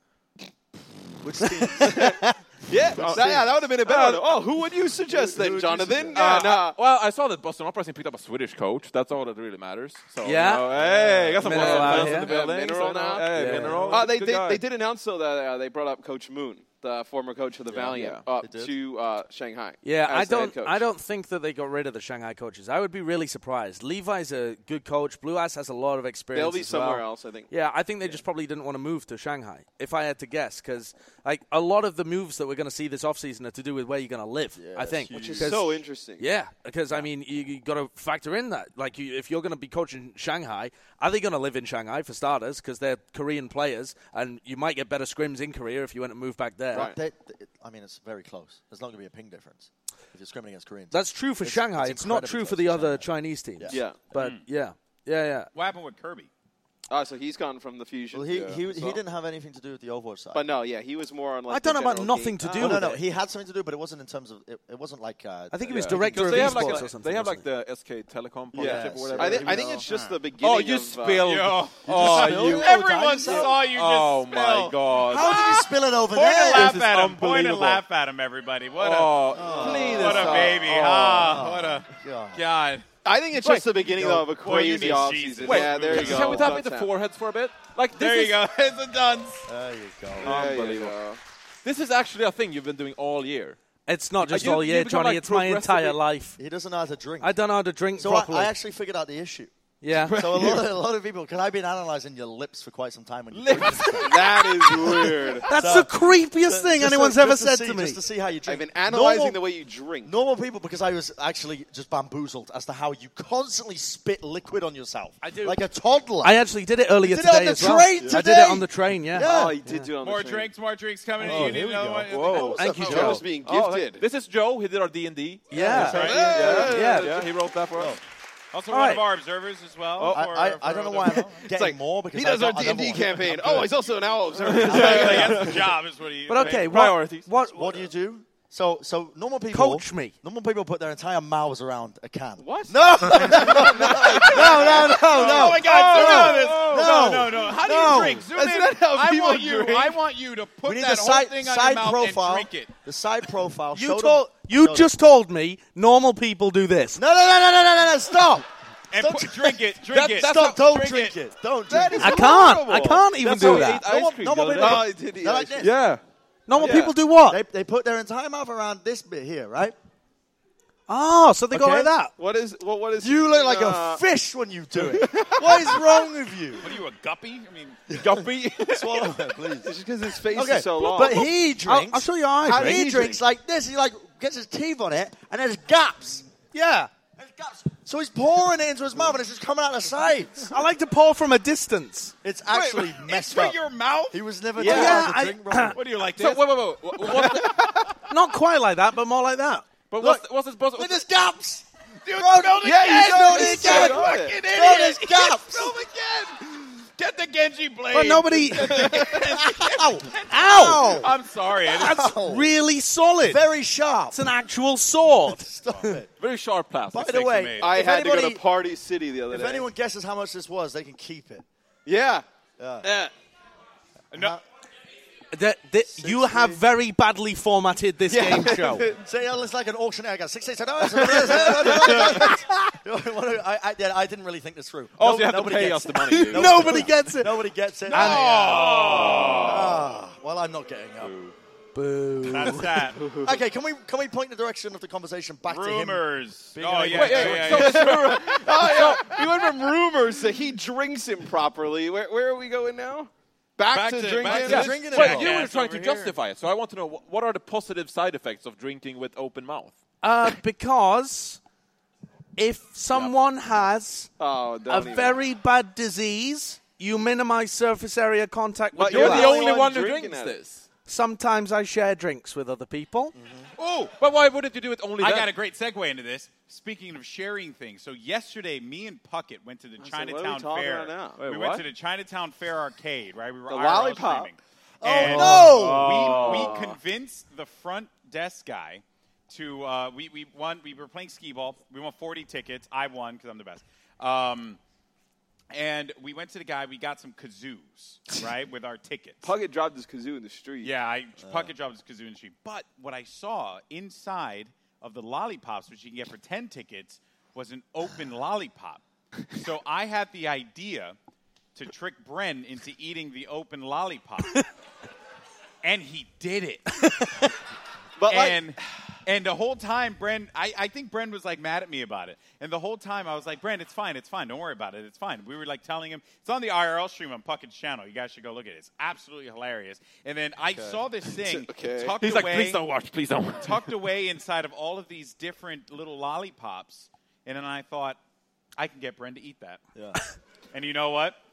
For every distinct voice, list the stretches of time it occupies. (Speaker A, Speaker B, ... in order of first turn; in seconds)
Speaker A: 1.2-2.4, 3.1-3.4, 5.1-6.2, 10.7-12.1, 13.4-13.8, 17.7-18.7, 34.5-35.6, 46.7-53.8, 58.1-60.5, 62.6-66.8, 68.5-69.9, 71.8-73.6, 75.0-76.8, 79.3-82.4, 83.9-84.2, 89.5-90.4, 96.4-97.3, 98.0-99.5, 100.1-109.4, 110.0-116.4, 117.0-119.6, 121.2-123.2, 125.5-126.8, 130.1-133.9, 134.5-135.6, 137.5-148.3, 150.6-154.9, 156.9-162.5, 163.4-165.8, 166.5-169.7, 171.5-171.9, 173.0-176.7, 177.9-179.7, 180.3-186.3, 187.2-190.5, 192.2-195.8, 200.0-205.7, 208.7-211.1, 211.7-212.5, 213.2-214.3, 215.2-216.1, 216.9-218.4, 219.3-221.4, 222.6-222.9, 224.1-224.4, 225.9-226.6, 229.0-241.2, 243.2-247.6, 254.2-255.4, 273.1-273.5, 284.8-286.5, 301.2-301.5, 330.5-330.8, 339.7-340.0
Speaker B: 1.8-6.8, 11.5-20.8, 26.3-27.5, 35.1-36.3, 46.7-47.0, 53.7-54.0, 56.9-59.0, 60.3-62.9, 66.4-66.8, 68.5-71.3, 79.5-80.6, 83.0-86.9, 90.2-91.2, 104.0-105.5, 108.4-110.1, 119.1-120.5, 122.7-124.0, 125.8-127.3, 131.3-135.5, 142.4-145.6, 148.3-150.0, 161.7-163.8, 164.5-165.7, 166.6-166.9, 172.1-174.0, 174.8-176.1, 179.6-181.3, 182.5-183.1, 194.6-195.0, 202.6-204.4, 217.6-219.7, 221.8-222.2, 222.8-223.1, 228.1-229.0, 231.0-231.9, 238.0-239.4, 243.0-243.4, 247.3-254.9, 264.2-265.2, 268.8-270.4, 279.8-281.2, 283.5-284.3, 285.0-286.8, 299.2-300.7, 318.0-318.4, 331.1-331.9
Speaker C: 2.9-4.3, 6.1-14.6, 17.9-18.2, 65.7-69.8, 70.4-72.8, 73.3-75.6, 76.4-77.8, 78.8-81.0, 85.4-88.4, 90.2-91.0, 91.6-93.6, 94.2-96.0, 100.0-100.7, 103.3-104.3, 121.3-121.5, 122.1-122.6, 123.3-128.0, 130.0-130.3, 134.4-135.7, 136.6-137.3, 145.6-147.1, 159.9-161.1, 163.1-164.9, 165.6-166.0, 177.9-179.2, 195.8-197.7, 199.9-201.0, 216.2-217.5, 234.9-236.9, 238.8-239.8, 241.0-241.3, 246.9-249.2, 254.3-259.7, 268.7-270.6, 274.0-275.3, 281.2-281.6, 285.0-286.5, 332.0-333.7
Speaker D: 10.2-10.7, 11.4-12.3, 13.3-14.1, 19.8-46.9, 50.9-55.5, 61.5-63.0, 65.5-67.5, 93.9-96.4, 97.2-98.5, 99.8-100.2, 105.5-108.0, 115.2-115.6, 116.2-119.8, 121.3-121.7, 122.5-123.2, 125.5-127.2, 128.7-129.0, 136.3-137.9, 139.5-140.1, 144.7-145.0, 153.7-157.0, 162.0-163.8, 166.5-167.4, 170.9-172.1, 181.1-183.2, 186.5-186.9, 190.5-192.1, 194.6-195.8, 198.1-199.7, 203.1-204.1, 207.9-209.1, 210.3-211.1, 211.7-213.4, 214.1-216.0, 225.3-228.9, 231.3-232.7, 236.1-238.8, 241.7-242.9, 260.0-261.4, 262.4-264.1, 264.7-269.3, 270.9-273.1
Speaker E: 54.1-54.4, 55.5-56.3, 69.6-70.2, 71.2-82.8, 84.3-86.5, 87.9-89.5, 120.0-122.8, 125.7-126.4, 128.5-131.4, 134.6-136.8, 144.2-152.7, 158.9-161.1, 176.6-177.8, 192.5-195.0, 195.7-198.0, 202.0-212.0, 217.0-217.8, 224.1-224.4, 237.9-239.8, 242.2-243.0, 245.5-249.1, 253.7-256.2, 273.6-273.9, 275.0-294.6, 295.5-299.3, 300.6-310.9, 311.5-314.4, 315.6-316.8, 318.1-332.6, 333.4-338.0, 338.6-339.6, 340.5-341.2